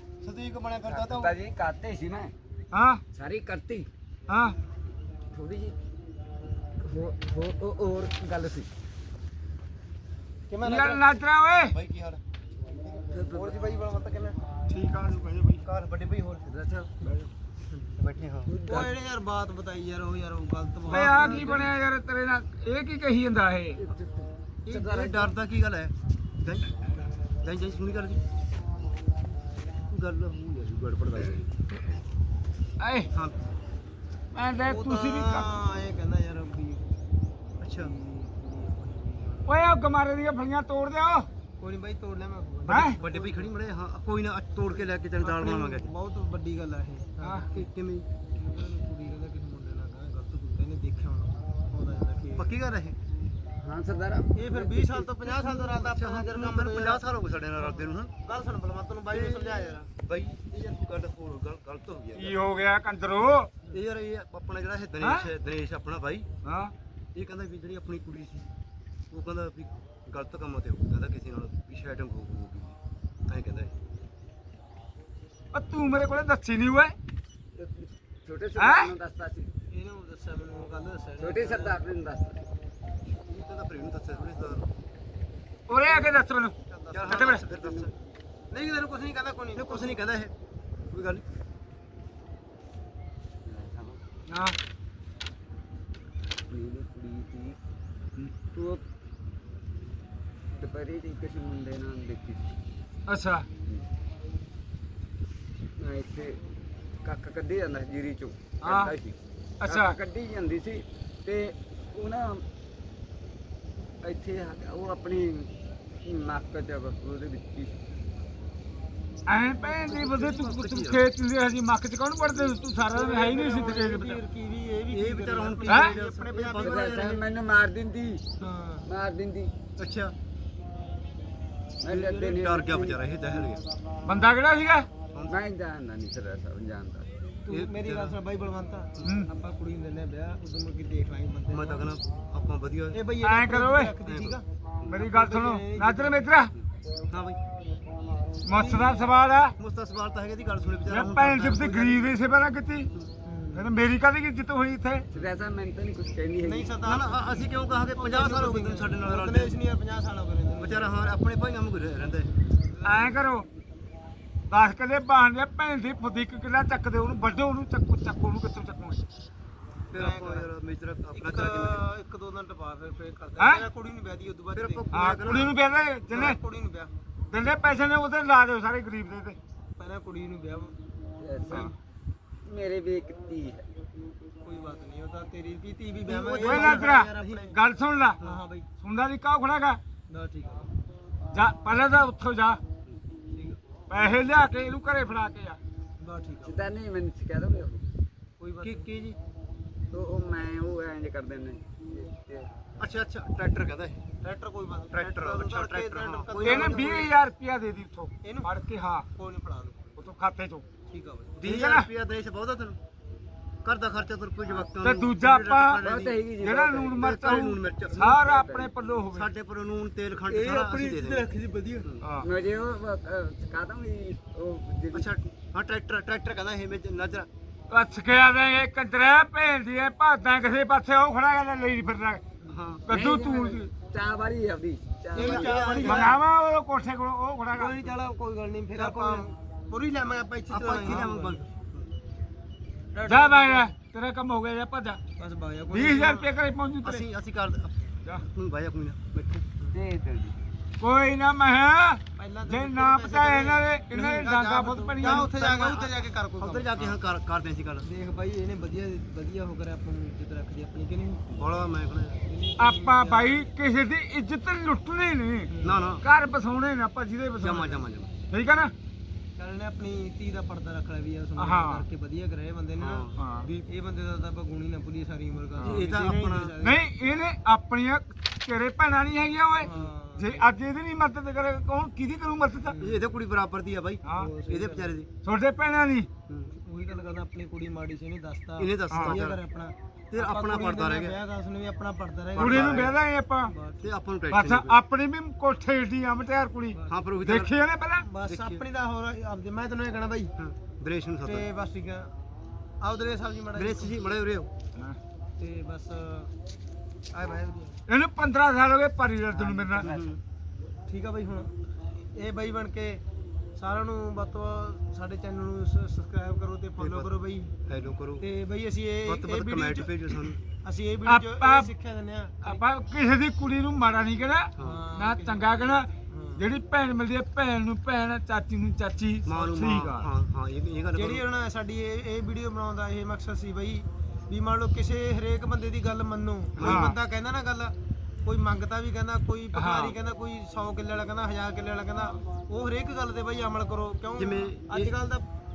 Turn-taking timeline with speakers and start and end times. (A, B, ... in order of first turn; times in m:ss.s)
0:00.2-0:01.4 A
0:00.8-0:02.3 B
0:02.7-0:03.0 C
0:03.1-0:03.9 B
0:04.3-0:04.6 C
0:05.3-0:05.8 B
0:06.8-0:08.7 B
0:10.5-0:11.0 D
0:10.6-0:11.7 C
0:11.7-0:12.2 A
0:13.1-0:13.6 B
0:13.3-0:14.4 D
0:14.7-0:15.6 C
0:15.6-0:16.5 A
0:16.4-0:16.9 B
0:17.0-0:17.3 C
0:18.0-0:18.5 A
0:18.5-0:18.9 B
0:18.7-0:21.7 D
0:20.9-0:23.8 C
0:20.9-0:21.6 A
0:23.8-0:25.3 B
0:24.7-0:26.7 A
0:27.4-0:28.2 A
0:29.9-0:31.5 A
0:32.8-0:33.1 C
0:33.1-0:33.4 A
0:34.3-0:35.5 C
0:34.6-0:36.9 D
0:37.6-0:37.9 A
0:37.8-0:39.7 D
0:39.5-0:41.3 C
0:41.6-0:43.5 D
0:42.7-0:43.0 C
0:42.7-0:45.9 A
0:45.2-0:47.6 D
0:47.2-0:47.5 C
0:47.5-0:48.1 A
0:48.3-0:52.5 D
0:52.4-0:53.0 A
0:53.6-0:55.4 B
0:54.4-0:57.0 D
0:55.6-0:58.1 A
0:57.6-0:59.9 D
0:59.1-1:02.4 A
1:02.2-1:03.5 C
1:03.7-1:06.3 A
1:05.0-1:05.3 C
1:06.4-1:06.7 C
1:07.1-1:08.5 A
1:09.1-1:12.8 A
1:13.3-1:13.7 A
1:15.5-1:16.9 C
1:17.6-1:19.5 B
1:18.6-1:18.9 C
1:19.7-1:21.8 D
1:21.2-1:22.4 B
1:23.2-1:24.7 A
1:25.7-1:26.5 C
1:26.7-1:27.3 D
1:26.9-1:27.9 A
1:27.1-1:27.4 C
1:27.2-1:27.9 B
1:28.5-1:30.0 D
1:29.5-1:30.3 A
1:30.9-1:31.2 A
1:33.4-1:34.0 B
1:34.3-1:34.6 C
1:36.5-1:37.6 B
1:38.5-1:38.8 B
1:40.5-1:42.6 B
1:43.1-1:43.4 C
1:45.8-1:46.4 B
1:47.0-1:52.4 B
1:48.6-1:48.9 C
1:49.6-1:50.0 C
1:54.0-1:55.5 B
1:56.0-1:57.8 B
1:59.3-2:04.2 C
1:59.6-2:01.0 A
2:02.9-2:06.9 D
2:04.9-2:07.2 A
2:05.7-2:05.9 C
2:06.6-2:08.2 B
2:08.4-2:08.9 D
2:08.8-2:09.5 B
2:09.8-2:10.1 A
2:11.8-2:13.0 B
2:11.9-2:13.6 A
2:14.0-2:14.9 C
2:15.3-2:17.1 B
2:17.4-2:21.9 D
2:17.5-2:18.2 A
2:19.0-2:19.3 C
2:21.5-2:23.0 A
2:22.9-2:26.3 D
2:23.2-2:23.9 C
2:24.0-2:25.0 A
2:24.9-2:26.5 C
2:27.1-2:27.4 A
2:28.4-2:29.5 C
2:28.5-2:29.0 D
2:29.6-2:32.1 A
2:30.9-2:32.9 C
2:33.2-2:33.7 D
2:33.5-2:35.0 C
2:35.1-2:36.8 B
2:36.4-2:41.0 D
2:36.8-2:39.5 A
2:40.6-2:42.3 A
2:42.7-2:43.2 D
2:42.8-2:43.4 C
2:44.5-2:49.0 C
2:49.9-2:51.8 A
2:49.9-2:50.5 D
2:51.2-2:55.4 D
2:53.4-2:53.6 C
2:54.5-2:55.6 A
2:54.9-2:56.4 C
2:56.1-2:56.9 D
2:57.3-2:59.4 C
2:59.8-3:00.8 D
3:01.2-3:01.7 B
3:02.4-3:03.7 B
3:04.4-3:07.6 D
3:06.0-3:06.9 A
3:06.4-3:08.2 C
3:08.2-3:08.7 D
3:08.8-3:09.8 C
3:10.1-3:10.7 D
3:11.3-3:12.6 C
3:13.3-3:13.6 D
3:13.9-3:15.6 C
3:16.0-3:16.6 D
3:16.4-3:17.8 B
3:18.4-3:18.8 D
3:18.6-3:19.2 A
3:19.9-3:22.5 B
3:22.8-3:24.1 A
3:24.2-3:27.1 D
3:24.9-3:27.0 A
3:26.4-3:29.1 C
3:28.2-3:28.5 D
3:29.1-3:30.0 D
3:30.0-3:30.6 C
3:30.9-3:31.4 D
3:31.3-3:32.8 A
3:31.4-3:31.9 C
3:33.6-3:36.2 A
3:34.8-3:35.8 C
3:35.8-3:37.0 B
3:36.4-3:39.3 C
3:37.0-3:38.2 A
3:37.9-3:38.7 B
3:39.1-3:42.0 A
3:40.3-3:41.9 D
3:42.0-3:42.3 C
3:42.2-3:45.1 B
3:44.9-3:47.3 A
3:47.7-3:52.2 C
3:52.5-3:52.8 A
3:52.8-3:53.7 C
3:52.9-3:56.0 B
3:55.1-3:56.2 D
3:55.1-3:56.2 A
3:55.8-3:57.9 C
3:57.5-4:01.4 D
4:00.5-4:01.9 A
4:02.9-4:03.7 D
4:03.0-4:05.0 C
4:05.2-4:06.3 D
4:05.7-4:07.0 C
4:06.8-4:09.4 A
4:09.7-4:10.4 B
4:10.8-4:15.3 C
4:12.2-4:17.0 D
4:15.0-4:17.9 A
4:17.8-4:21.2 D
4:21.3-4:22.2 A
4:22.2-4:23.5 D
4:22.6-4:28.7 C
4:25.5-4:26.0 D
4:25.6-4:26.0 A
4:27.4-4:28.1 A
4:29.4-4:33.1 D
4:31.4-4:31.8 C
4:32.8-4:33.6 A
4:33.2-4:33.5 C
4:33.7-4:36.8 D
4:35.6-4:35.9 C
4:35.6-4:36.6 A
4:36.6-4:42.8 C
4:39.6-4:40.5 D
4:42.6-4:43.1 D
4:42.8-4:45.1 A
4:44.0-4:44.9 D
4:44.0-4:44.3 C
4:45.2-4:46.1 C
4:46.5-4:53.9 D
4:48.6-4:49.4 A
4:48.9-4:49.2 C
4:50.1-4:51.2 A
4:52.3-4:53.0 A
4:52.4-4:53.5 C
4:53.8-4:54.8 A
4:54.3-4:58.1 C
4:56.9-4:57.5 A
4:58.0-5:00.3 D
4:58.2-4:58.6 A
5:00.4-5:01.5 A
5:01.2-5:02.1 D
5:02.8-5:04.0 D
5:03.6-5:04.5 A
5:05.4-5:06.3 D
5:07.1-5:07.8 D
5:07.9-5:09.9 C
5:09.3-5:10.1 B
5:09.8-5:10.2 A
5:10.9-5:11.5 D
5:12.1-5:13.0 D
5:13.6-5:17.7 D
5:16.8-5:17.1 A
5:17.7-5:18.2 A
5:18.2-5:22.6 D
5:19.0-5:20.4 A
5:21.0-5:21.7 C
5:22.4-5:30.1 C
5:24.6-5:26.4 D
5:29.2-5:31.2 A
5:30.9-5:45.3 D
5:36.6-5:36.9 A
5:36.6-5:37.0 C
5:39.5-5:40.0 C
5:44.2-5:44.9 A